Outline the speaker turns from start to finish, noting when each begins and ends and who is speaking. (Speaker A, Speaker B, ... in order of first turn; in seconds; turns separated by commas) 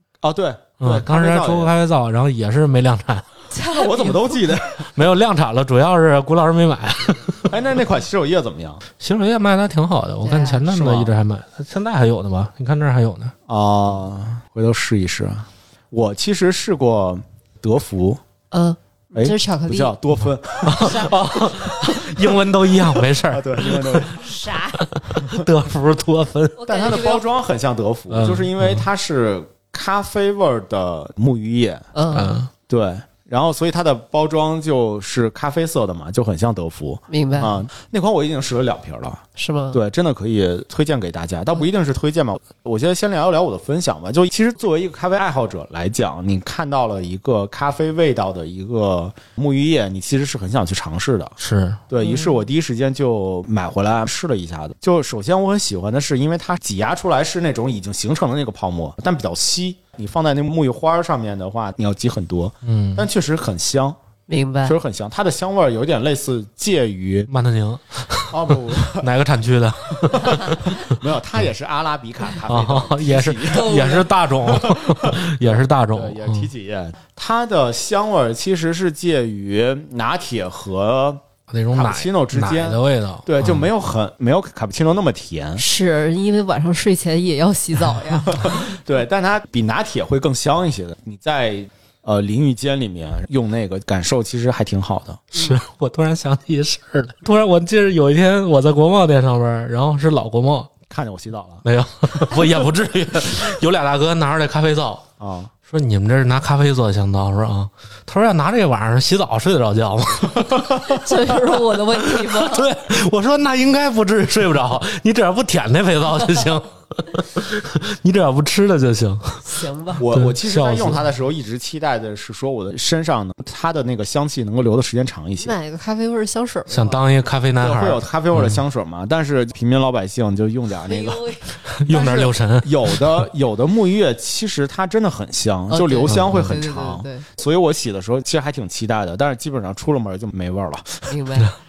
Speaker A: 0.2-1.7, Speaker B: 0.8-3.3, Speaker C: 3.5-4.4, Speaker A: 3.7-4.9, Speaker B: 4.9-7.5, Speaker A: 7.5-8.8, Speaker B: 9.0-13.3, Speaker C: 10.2-10.6, Speaker A: 10.7-11.1, Speaker A: 13.5-18.2, Speaker C: 18.5-19.9, Speaker A: 19.1-22.3, Speaker B: 20.6-26.6, Speaker A: 23.2-24.3, Speaker C: 24.1-24.8, Speaker A: 25.2-25.4, Speaker C: 26.6-27.3, Speaker A: 26.7-31.9, Speaker B: 28.1-28.8, Speaker C: 31.9-32.4, Speaker B: 32.1-32.5, Speaker A: 32.7-51.4, Speaker C: 37.1-37.6, Speaker C: 39.4-39.8, Speaker B: 51.4-51.8, Speaker A: 51.9-64.0, Speaker C: 52.0-52.3, Speaker B: 62.6-63.1, Speaker C: 64.3-64.8, Speaker A: 64.6-67.3, Speaker B: 67.3-71.4, Speaker A: 68.3-69.1, Speaker A: 70.0-81.2, Speaker B: 72.5-76.5, Speaker C: 73.5-74.1, Speaker B: 81.5-83.7, Speaker A: 81.7-85.6, Speaker C: 85.6-88.6, Speaker A: 88.3-95.2, Speaker B: 95.3-100.7, Speaker A: 100.9-101.6, Speaker B: 101.6-105.1, Speaker A: 105.2-105.5, Speaker B: 105.7-119.5, Speaker A: 110.5-110.7, Speaker C: 110.8-112.7, Speaker C: 119.5-120.0, Speaker A: 120.0-125.5, Speaker B: 120.1-121.0, Speaker C: 125.4-127.0, Speaker B: 126.7-128.6, Speaker A: 127.6-131.2, Speaker C: 130.8-131.5, Speaker B: 131.7-133.2, Speaker A: 131.9-141.2, Speaker C: 135.7-137.2, Speaker B: 136.1-136.5, Speaker C: 141.1-141.5